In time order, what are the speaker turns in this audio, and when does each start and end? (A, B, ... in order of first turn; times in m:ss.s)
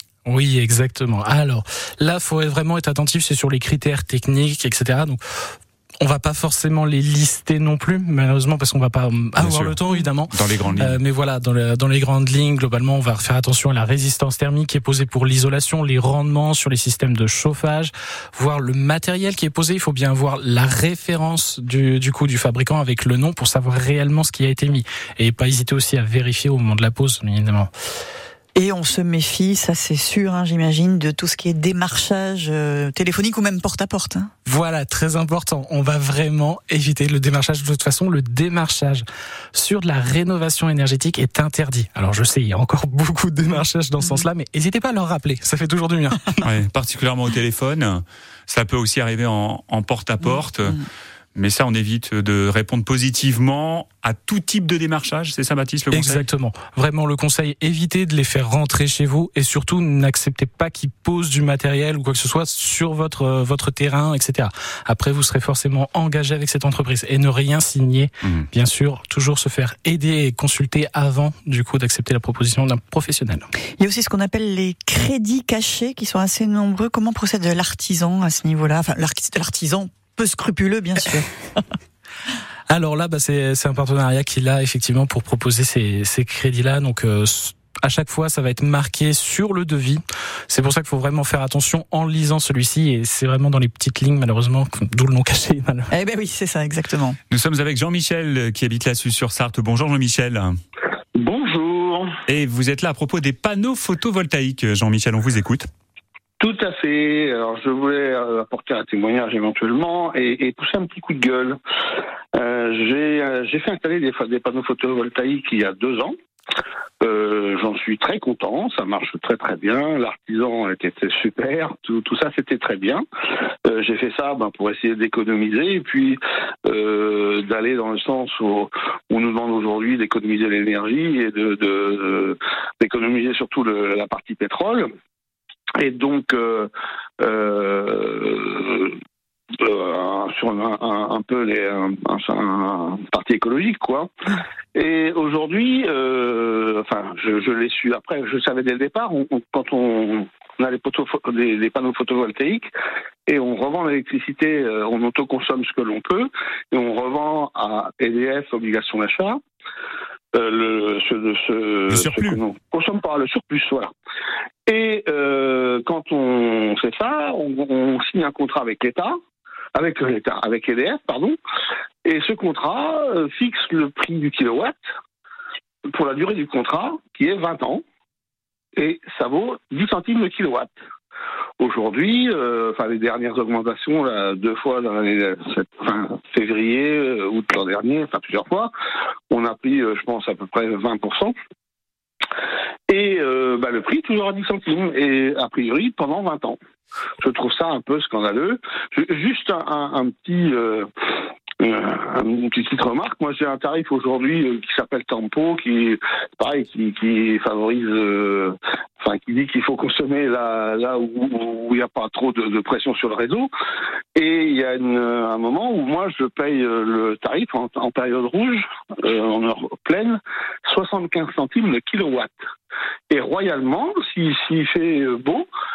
0:00.2-0:27.7 A
0:09.4-0:09.8 B
0:10.3-0:11.0 B
0:28.6-0:34.3 C
0:34.5-0:46.5 A
0:46.4-0:50.8 B
0:51.4-0:56.3 B
0:55.9-1:13.5 A
1:13.8-1:21.6 C
1:22.7-1:35.9 A
1:35.9-1:37.2 C
1:37.3-1:40.6 B
1:41.2-1:42.2 D
1:42.3-1:45.7 B
1:46.4-1:51.6 D
1:52.3-1:56.2 D
1:57.0-2:03.0 D
2:03.6-2:14.9 D
2:15.8-2:19.0 D
2:19.6-2:24.1 D
2:24.8-2:32.7 D
2:33.3-2:39.4 D
2:40.3-2:43.9 D
2:41.9-2:42.4 B
2:44.7-2:49.2 D
2:49.8-2:51.4 D
2:52.0-2:54.8 D
2:55.9-2:57.8 D
2:58.8-3:00.7 D
3:01.6-3:08.7 D
3:09.3-3:11.3 D
3:12.9-3:16.6 D
3:17.2-3:20.9 D
3:21.6-3:33.5 D
3:34.2-3:42.3 D
3:43.1-3:45.5 D